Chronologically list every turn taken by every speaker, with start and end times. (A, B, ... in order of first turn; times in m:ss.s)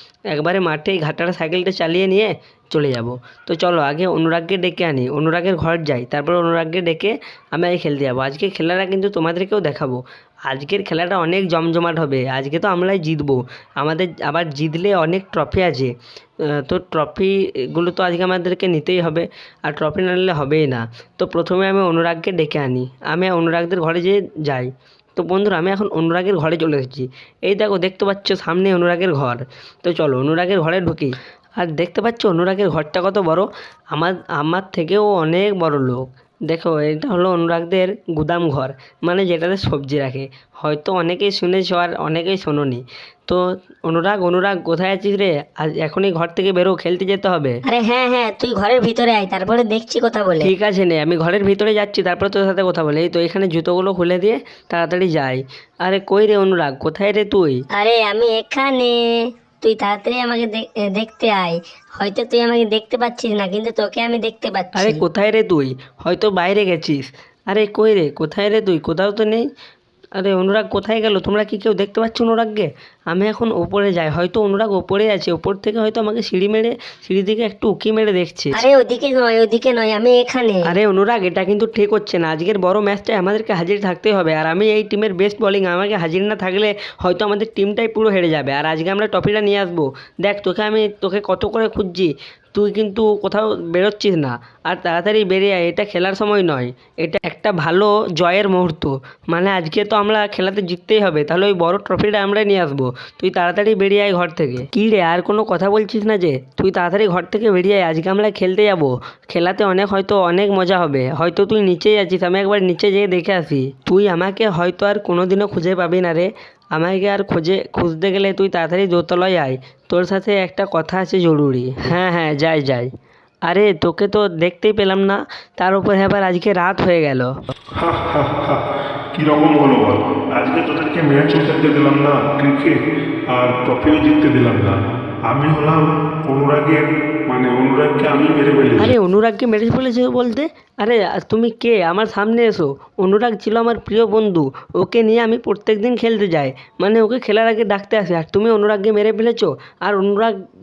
0:00.3-0:15.9 A
0:16.4-0:47.6 A
0:47.7-0:50.5 B
0:50.4-0:57.6 A
0:57.7-1:05.0 B
1:04.8-1:09.4 A
1:10.2-1:18.6 A
1:18.5-1:20.6 B
1:20.6-2:02.9 A
2:03.4-2:07.3 A
2:07.8-2:08.6 C
2:09.1-2:18.9 C
2:18.8-2:30.4 A